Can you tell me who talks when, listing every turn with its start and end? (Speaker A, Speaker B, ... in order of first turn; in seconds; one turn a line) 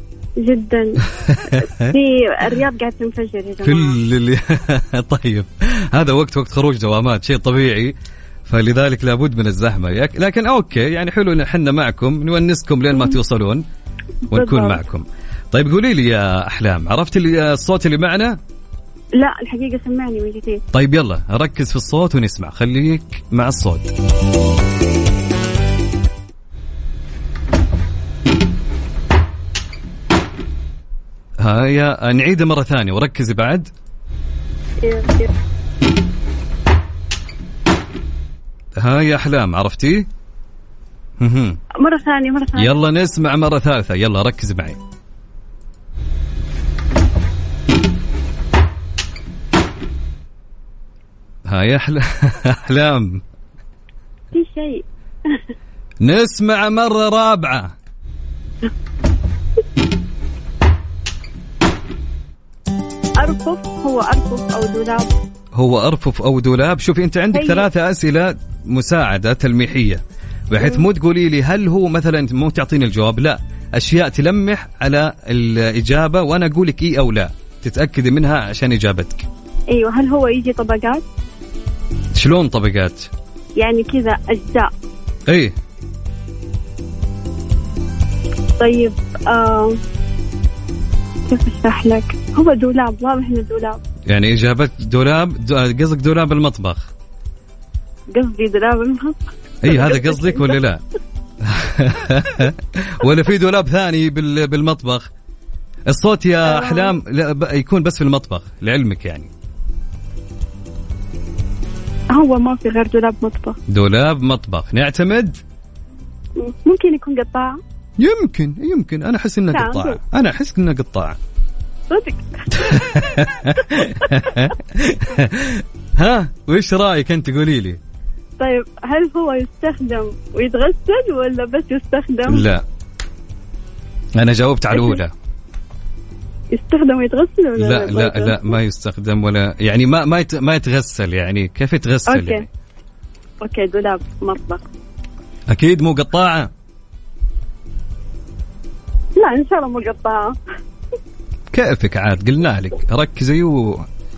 Speaker A: 0.4-1.0
Speaker B: 1.3-1.8
Speaker A: 1.5-4.0
Speaker B: 3.6-7.9
Speaker B: 8.5-13.6
Speaker A: 14.3-14.8
Speaker B: 14.3-18.4
Speaker A: 19.2-20.6
Speaker B: 20.7-23.9
Speaker B: 31.4-33.7
Speaker A: 34.8-35.3
Speaker B: 38.8-40.1
Speaker B: 41.2-41.6
Speaker A: 41.8-42.8
Speaker B: 42.5-44.8
Speaker B: 51.5-53.2
Speaker A: 54.3-55.4
Speaker B: 56.0-57.7
Speaker A: 63.2-65.1
Speaker B: 65.6-79.3
Speaker A: 67.3-67.7
Speaker A: 70.6-70.9
Speaker A: 79.7-81.0
Speaker B: 82.2-83.1
Speaker A: 83.6-84.7
Speaker B: 85.3-85.5
Speaker A: 88.6-89.8
Speaker A: 91.3-93.8
Speaker B: 94.1-96.9
Speaker A: 98.1-100.6
Speaker B: 99.6-100.8
Speaker B: 101.5-105.1
Speaker B: 105.9-109.3
Speaker A: 106.5-106.9
Speaker A: 112.1-113.6
Speaker B: 113.7-115.4
Speaker A: 116.4-117.6
Speaker B: 118.0-121.2
Speaker A: 119.5-120.0
Speaker A: 121.9-123.0
Speaker B: 122.6-127.8
Speaker A: 123.6-124.3
Speaker A: 128.4-132.4
Speaker B: 132.3-132.6
Speaker B: 134.2-135.1
Speaker A: 134.7-135.0
Speaker A: 136.5-138.6
Speaker B: 137.6-142.5
Speaker A: 142.1-142.4
Speaker A: 143.4-144.6
Speaker B: 145.5-146.5
Speaker A: 149.2-150.4
Speaker B: 151.5-153.8